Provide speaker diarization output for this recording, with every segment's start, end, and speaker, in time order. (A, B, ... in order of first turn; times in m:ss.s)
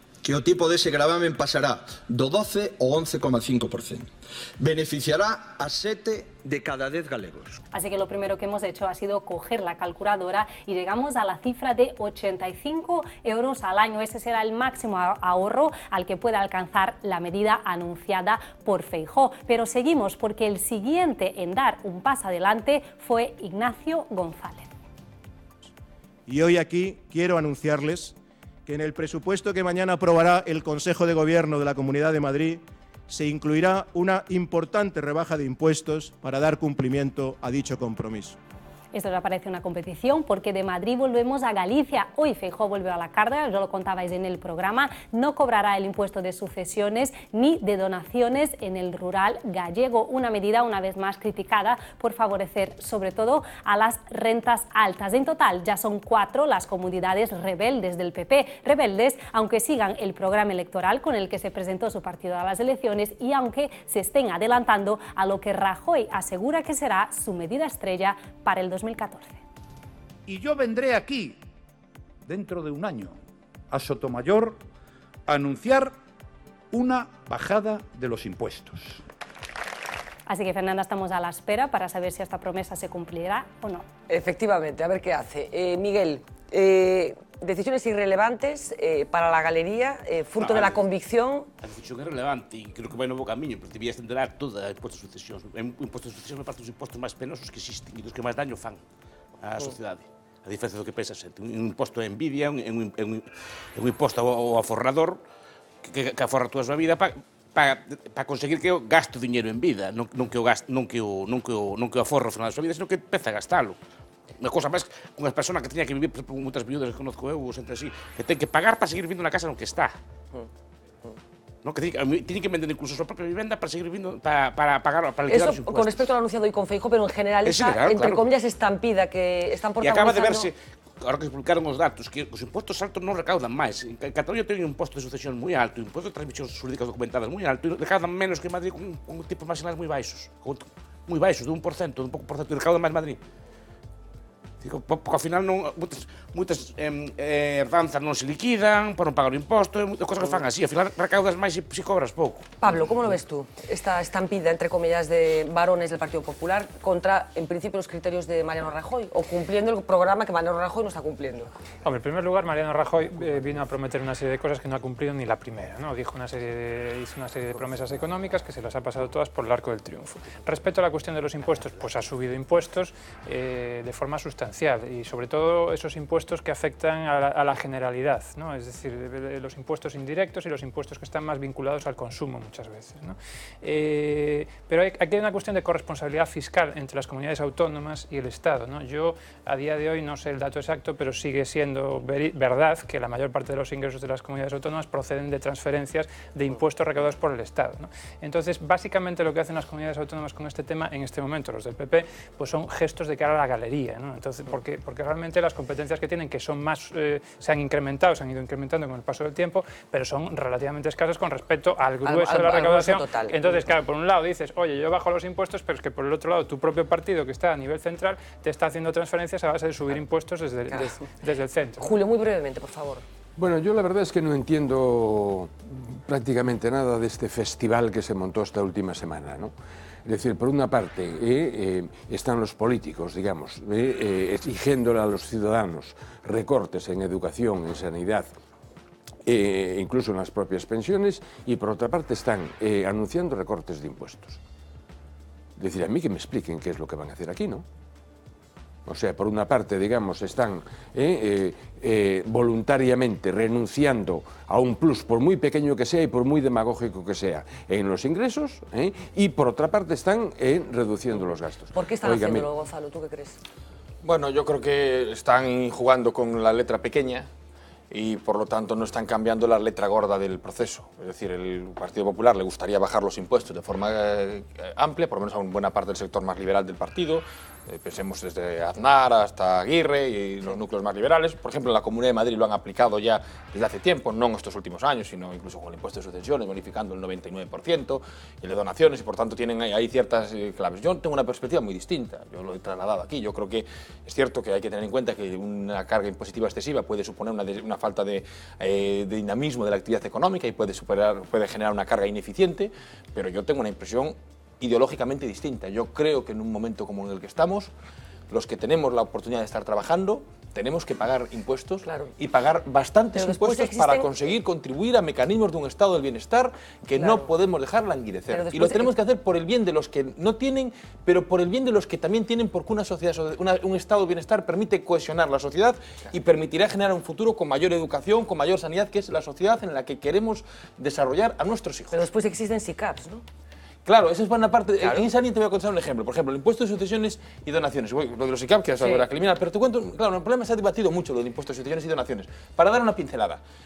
0:00.2-0:07.6 A
0:07.7-0:24.7 B
0:26.3-0:28.1 C
0:28.6-0:38.4 C
0:38.9-1:09.4 B
1:10.3-1:11.4 D
1:12.3-1:13.2 D
1:13.7-1:14.6 D
1:15.3-1:15.9 D
1:16.7-1:19.0 D
1:20.3-1:23.8 B
1:24.1-1:31.5 E
1:30.4-1:30.8 F
1:31.6-1:38.8 F
1:39.4-1:45.2 F
1:45.8-1:53.8 F
1:54.4-1:59.9 F
2:01.6-2:06.0 F
2:05.3-2:10.5 E
2:07.4-2:08.2 F
2:09.8-2:23.2 F
2:24.6-2:32.5 F
2:32.6-2:41.5 E
2:41.8-3:41.9 G
3:32.0-3:33.5 E
3:40.7-3:41.0 E
3:41.8-3:43.0 E
3:43.4-3:49.5 H
3:50.0-3:58.3 H
3:59.2-4:04.4 H
4:05.6-4:07.6 H
4:08.8-4:22.5 H
4:21.7-4:23.4 E
4:24.0-4:27.3 I
4:27.9-5:07.7 I
5:08.3-5:32.0 I
5:11.8-5:12.1 E
5:13.1-5:14.1 E
5:17.0-5:17.3 E
5:18.3-5:18.9 E
5:31.9-5:33.2 E
5:33.8-5:43.4 I
5:34.8-5:35.1 E
5:38.8-5:39.0 E